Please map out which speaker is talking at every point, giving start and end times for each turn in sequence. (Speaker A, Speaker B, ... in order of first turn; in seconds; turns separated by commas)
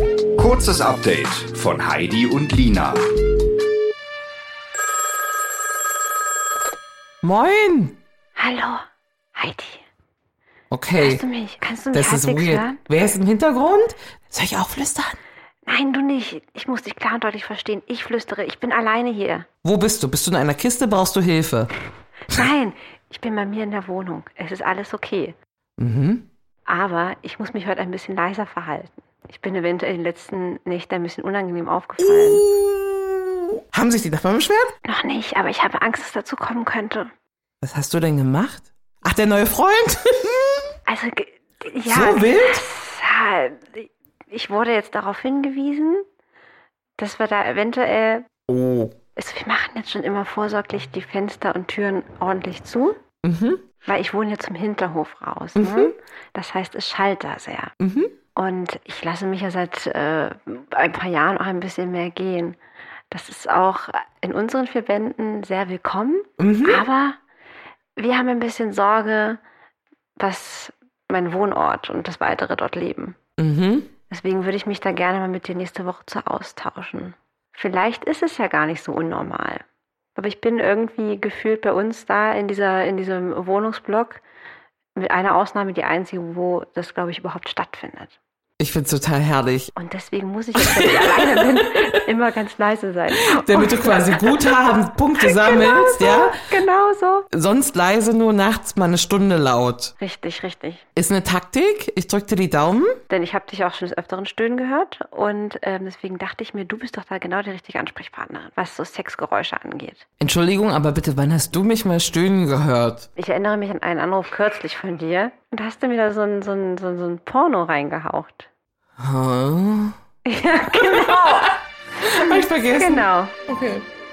Speaker A: 0.4-3.1, Speaker B: 7.2-8.0, Speaker C: 8.4-8.8, Speaker C: 9.3-9.8, Speaker B: 10.7-11.2, Speaker C: 11.0-12.8, Speaker B: 11.9-15.2, Speaker C: 15.7-19.5, Speaker B: 19.6-21.7, Speaker C: 22.3-25.4, Speaker B: 25.8-26.3, Speaker C: 26.6-32.5, Speaker B: 32.0-34.7, Speaker C: 34.9-37.1, Speaker B: 37.6-40.7, Speaker C: 40.9-46.0, Speaker B: 41.9-42.6, Speaker C: 47.0-48.3, Speaker B: 48.5-48.9, Speaker C: 49.2-53.0, Speaker B: 53.2-53.6, Speaker C: 53.9-57.7, Speaker B: 55.6-55.9, Speaker B: 57.8-58.1, Speaker C: 58.4-62.6, Speaker C: 63.1-67.2, Speaker B: 66.4-66.9, Speaker C: 68.0-69.4, Speaker C: 70.2-73.2, Speaker B: 73.4-73.9, Speaker C: 74.1-79.6, Speaker C: 80.2-84.2, Speaker C: 85.0-88.1, Speaker B: 88.6-89.7, Speaker C: 89.8-94.4, Speaker B: 90.6-91.9, Speaker B: 93.3-96.4, Speaker C: 95.2-97.3, Speaker B: 97.3-99.9, Speaker C: 100.0-100.9, Speaker B: 101.0-103.0, Speaker C: 103.1-110.0, Speaker B: 110.2-113.1, Speaker C: 113.2-118.5, Speaker B: 119.0-120.0, Speaker C: 120.2-123.3, Speaker B: 120.9-121.5, Speaker B: 122.0-123.8